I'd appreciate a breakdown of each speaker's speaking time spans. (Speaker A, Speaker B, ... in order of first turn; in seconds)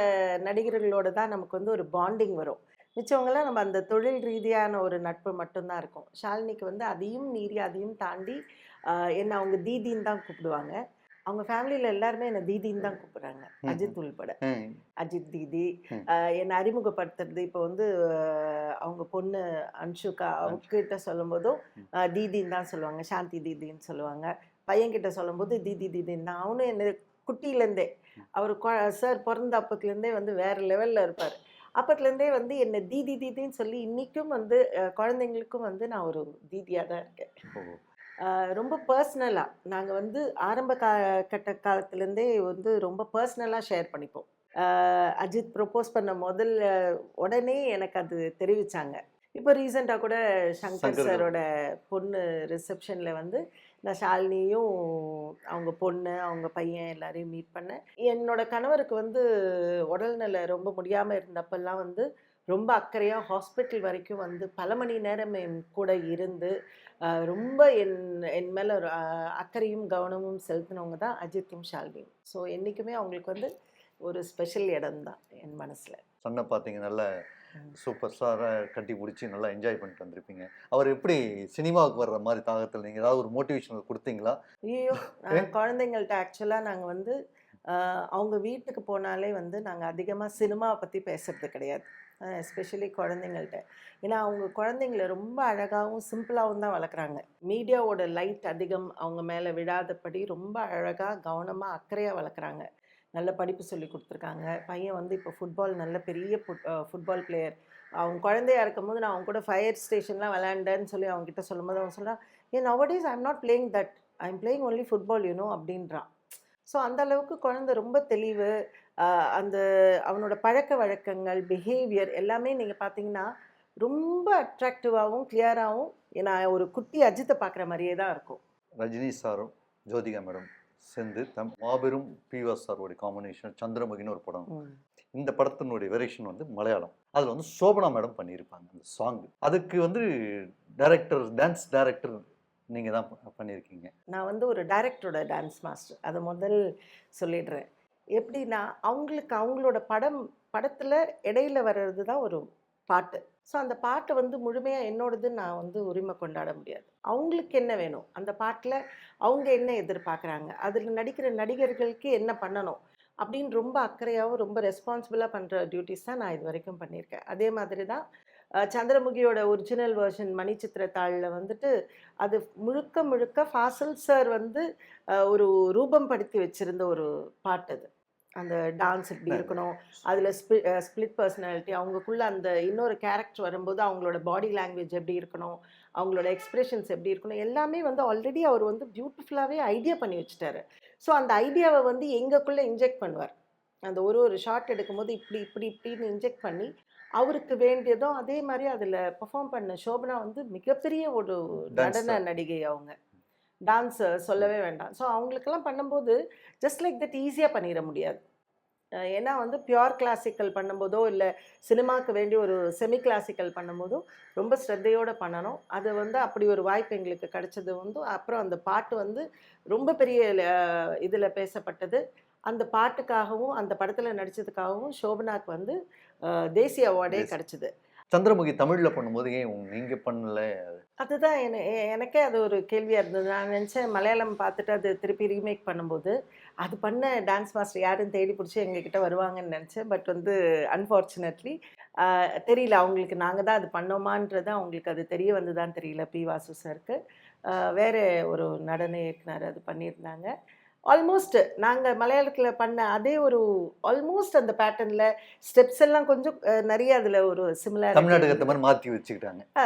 Speaker A: 0.4-10.8, 11.3-14.4, 15.0-37.2, 38.2-46.5, 47.2-59.2, 59.9-66.5, 67.1-73.5, 74.1-76.0, 84.7-87.1, 87.7-116.1, 116.7-118.5, 119.0-123.3, 123.8-128.4, 144.1-146.6, 147.2-147.7, 148.2-168.0, 168.6-171.7, 172.2-174.6, 175.2-177.9, 178.4-193.3, 193.9-202.9, 203.7-208.2, 209.1-225.8, 226.6-227.7, 231.0-247.0, 247.5-250.3, 250.9-258.6
Speaker B: 13.7-14.8, 37.5-37.8, 50.8-51.3, 76.2-77.1, 77.7-84.4, 128.8-134.5, 135.1-142.2, 142.7-143.9, 179.3-179.6, 201.7-202.2, 228.1-230.8, 257.9-259.4